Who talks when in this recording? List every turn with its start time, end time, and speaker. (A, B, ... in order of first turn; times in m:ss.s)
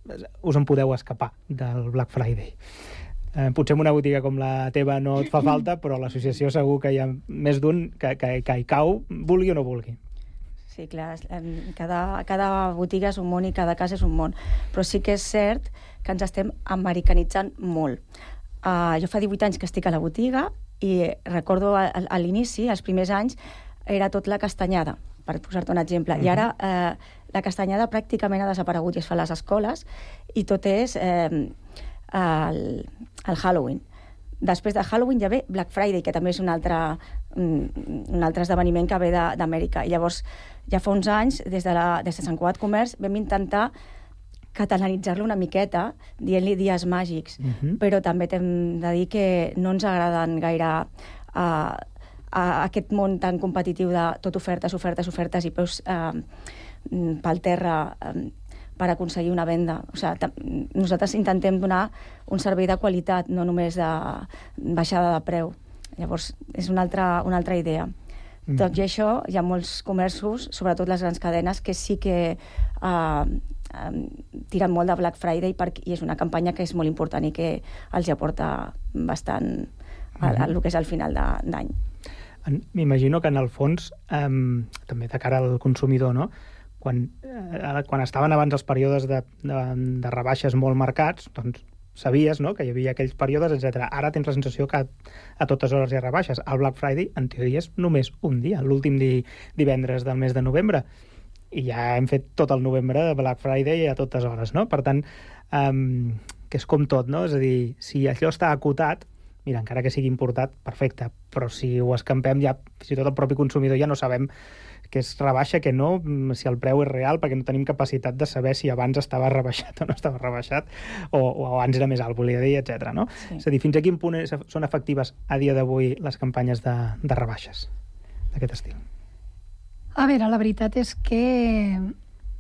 0:00.4-0:02.6 A
0:03.4-0:10.0 A
0:10.7-0:18.0 B
0:18.6-0:23.4 B
0:23.9-0:31.5 B
0:26.2-0:26.5 A
0:32.1-0:33.8 B
0:34.4-0:43.7 B
0:44.6-0:56.3 B
0:47.4-0:47.8 A
0:56.9-1:07.9 B
1:08.6-1:19.7 B
1:20.2-1:20.5 A
1:20.2-1:21.7 B
1:22.5-1:40.8 A
1:41.5-1:54.3 A
1:54.9-2:07.7 A
2:08.3-2:08.8 A
2:10.0-2:11.9 C